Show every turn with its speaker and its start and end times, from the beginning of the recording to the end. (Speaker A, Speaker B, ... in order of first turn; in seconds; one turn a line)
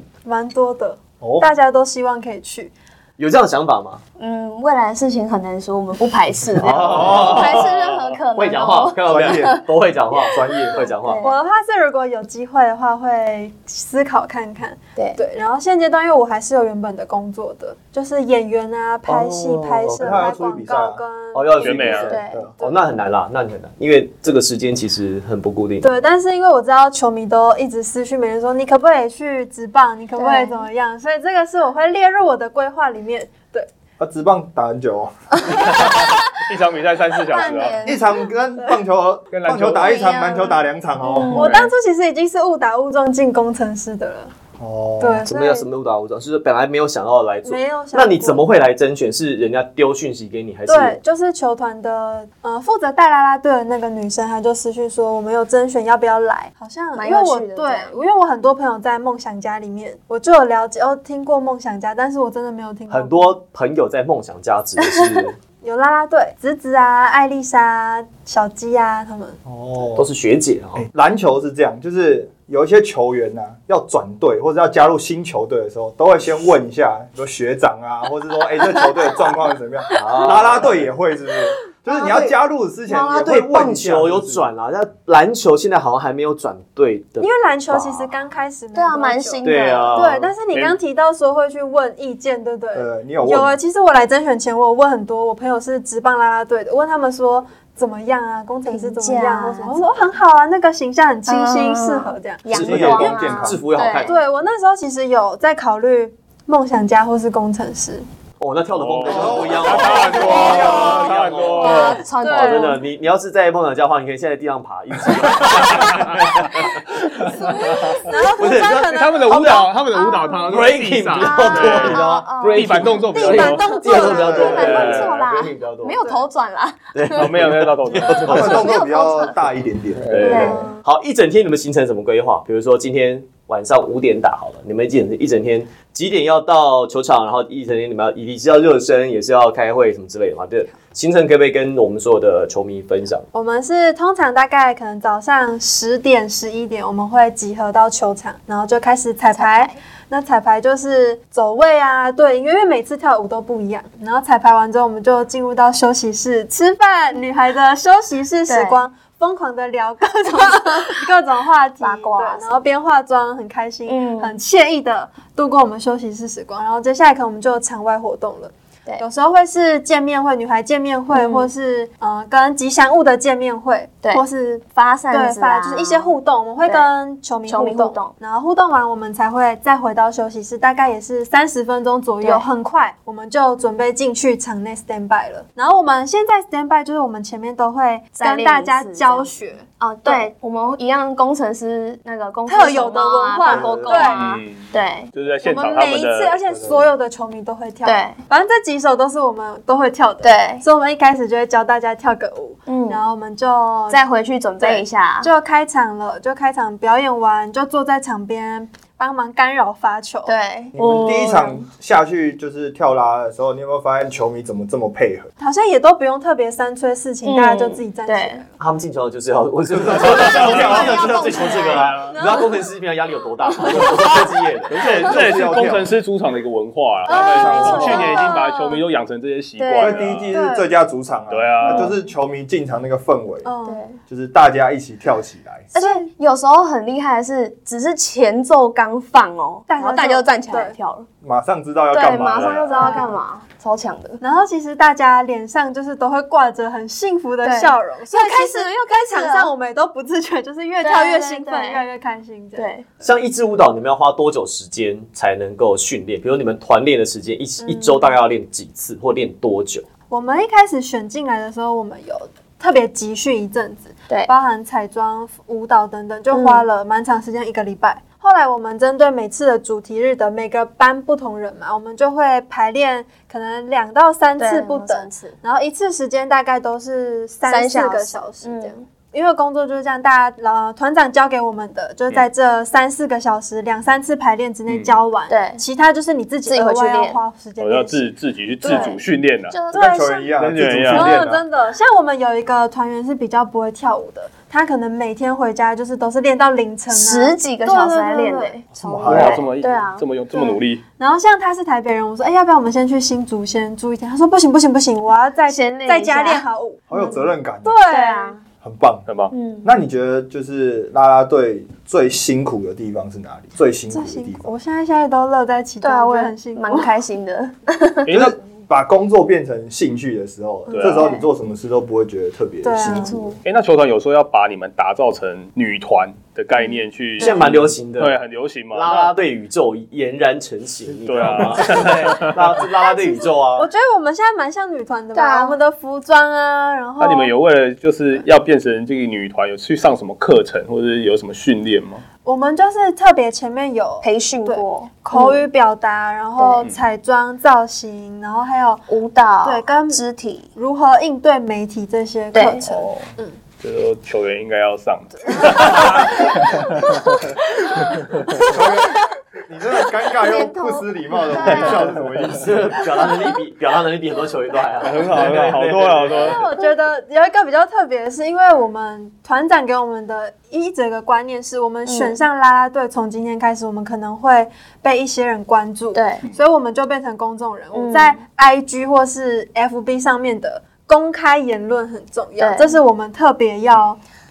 Speaker A: 0.2-2.7
Speaker B: 1.2-1.4
Speaker C: 3.2-4.0
Speaker D: 4.2-11.3
Speaker C: 6.6-7.7
Speaker B: 6.6-7.6
Speaker C: 8.3-11.2
Speaker B: 9.0-9.6
Speaker B: 10.3-10.8
Speaker A: 11.2-22.8
Speaker C: 19.1-20.3
Speaker B: 19.9-21.0
Speaker C: 21.3-25.9
Speaker E: 21.6-22.1
Speaker D: 22.1-22.4
Speaker B: 22.1-22.5
Speaker A: 25.8-33.7
Speaker D: 30.2-30.7
Speaker B: 34.0-35.5
Speaker E: 35.5-37.8
Speaker D: 37.2-38.1
Speaker B: 37.8-41.4
Speaker E: 39.3-40.0
Speaker D: 39.8-41.5
Speaker A: 39.8-40.3
Speaker A: 41.3-44.3
Speaker E: 41.3-41.7
Speaker B: 44.6-45.2
Speaker A: 45.0-45.6
Speaker C: 45.3-51.0
Speaker A: 47.4-48.5
Speaker A: 50.7-63.4
Speaker D: 57.0-58.0
Speaker C: 62.9-65.4
Speaker A: 65.6-69.4
Speaker B: 69.5-70.1
Speaker C: 70.0-70.9
Speaker B: 70.7-84.5
Speaker C: 79.9-80.8
Speaker C: 82.0-82.3
Speaker C: 82.9-88.1
Speaker A: 87.2-102.4
Speaker D: 88.7-90.1
Speaker C: 89.4-90.3
Speaker E: 90.5-90.8
Speaker B: 92.7-93.6
Speaker D: 98.7-99.8
Speaker D: 101.2-104.1
Speaker C: 102.5-104.1
Speaker B: 102.5-103.6
Speaker A: 104.0-108.0
Speaker C: 108.4-116.8
Speaker E: 108.7-112.1
Speaker B: 109.0-111.4
Speaker A: 110.2-110.8
Speaker D: 110.3-110.9
Speaker D: 111.5-112.8
Speaker A: 111.8-112.8
Speaker E: 115.4-118.1
Speaker A: 117.2-120.3
Speaker C: 118.4-119.7
Speaker E: 118.7-125.2
Speaker D: 120.2-120.4
Speaker C: 120.5-126.1
Speaker D: 121.2-129.3
Speaker A: 123.0-124.7
Speaker B: 124.1-124.7
Speaker C: 126.9-128.7
Speaker E: 127.1-128.7
Speaker B: 128.3-130.6
Speaker E: 130.1-130.6
Speaker C: 130.1-143.3
Speaker D: 130.2-130.7
Speaker A: 130.2-130.8
Speaker A: 143.3-190.3
Speaker D: 149.3-149.8
Speaker D: 158.5-158.8
Speaker D: 161.8-162.6
Speaker D: 163.9-164.4
Speaker D: 171.1-171.5
Speaker D: 174.7-176.1
Speaker D: 177.5-178.1
Speaker D: 188.2-195.1
Speaker A: 192.5-194.3
Speaker B: 193.4-194.1
Speaker E: 194.0-196.4
Speaker A: 195.4-204.0
Speaker B: 196.5-196.9
Speaker D: 197.8-198.2
Speaker D: 200.2-200.6
Speaker D: 202.7-203.0
Speaker D: 203.9-205.3
Speaker A: 204.6-211.5
Speaker D: 210.2-211.5
Speaker B: 210.7-215.3
Speaker A: 215.4-218.5
Speaker D: 217.2-218.4
Speaker C: 218.6-224.9
Speaker B: 219.7-221.3
Speaker D: 220.1-221.9
Speaker E: 220.2-222.2
Speaker A: 222.1-222.5
Speaker E: 224.7-230.3
Speaker B: 224.8-225.9
Speaker A: 227.1-228.8
Speaker B: 227.1-228.2
Speaker D: 227.5-228.7
Speaker D: 229.6-230.1
Speaker B: 229.8-233.5
Speaker A: 230.3-230.7
Speaker E: 231.3-231.9
Speaker A: 231.7-231.9
Speaker A: 233.4-233.9
Speaker B: 234.1-235.7
Speaker A: 235.7-236.1
Speaker D: 235.7-241.1
Speaker A: 239.7-240.8
Speaker B: 241.2-242.9
Speaker D: 241.9-244.2
Speaker E: 242.2-242.8
Speaker A: 242.7-243.1
Speaker A: 244.2-252.7
Speaker D: 247.4-249.5
Speaker D: 250.8-251.8
Speaker D: 252.6-252.8
Speaker C: 253.0-259.9
Speaker A: 257.6-258.2
Speaker A: 260.1-289.0
Speaker D: 266.3-266.6
Speaker D: 274.4-275.4
Speaker D: 277.4-278.8
Speaker E: 284.7-285.0
Speaker D: 285.3-285.6
Speaker D: 286.4-287.2
Speaker E: 287.6-289.6
Speaker D: 288.6-289.8
Speaker B: 289.7-291.4
Speaker A: 289.7-299.4
Speaker E: 290.4-291.2
Speaker D: 296.9-300.0
Speaker B: 298.7-299.4
Speaker E: 299.1-300.8
Speaker A: 300.3-308.4
Speaker D: 305.4-306.4
Speaker B: 306.9-307.8
Speaker D: 307.9-308.4
Speaker B: 308.6-309.1
Speaker E: 309.1-309.3
Speaker D: 309.3-309.7
Speaker B: 309.6-314.5
Speaker A: 313.9-316.9
Speaker D: 315.8-318.1
Speaker E: 318.1-318.4
Speaker B: 318.1-323.2
Speaker A: 320.7-321.2
Speaker E: 320.7-321.1
Speaker D: 320.9-321.3
Speaker A: 322.6-323.2
Speaker D: 322.8-323.4
Speaker E: 323.4-329.1
Speaker D: 327.2-327.5
Speaker C: 327.2-328.2
Speaker C: 328.7-333.7
Speaker E: 331.0-332.4
Speaker B: 331.4-331.7
Speaker A: 332.6-337.3
Speaker D: 335.1-335.6
Speaker E: 337.0-342.0
Speaker A: 342.2-348.9
Speaker D: 344.0-345.4
Speaker D: 346.4-346.6
Speaker D: 348.9-350.5
Speaker A: 349.4-350.0
Speaker A: 350.5-353.4
Speaker D: 352.3-352.6
Speaker E: 353.6-357.3
Speaker A: 355.3-356.1
Speaker E: 358.0-358.5
Speaker B: 358.4-362.7
Speaker D: 360.2-361.9
Speaker E: 361.4-361.8
Speaker C: 362.2-366.4
Speaker E: 364.8-366.4
Speaker A: 366.1-384.0
Speaker D: 371.9-372.2
Speaker D: 375.9-376.2
Speaker D: 377.7-378.2
Speaker D: 382.4-382.8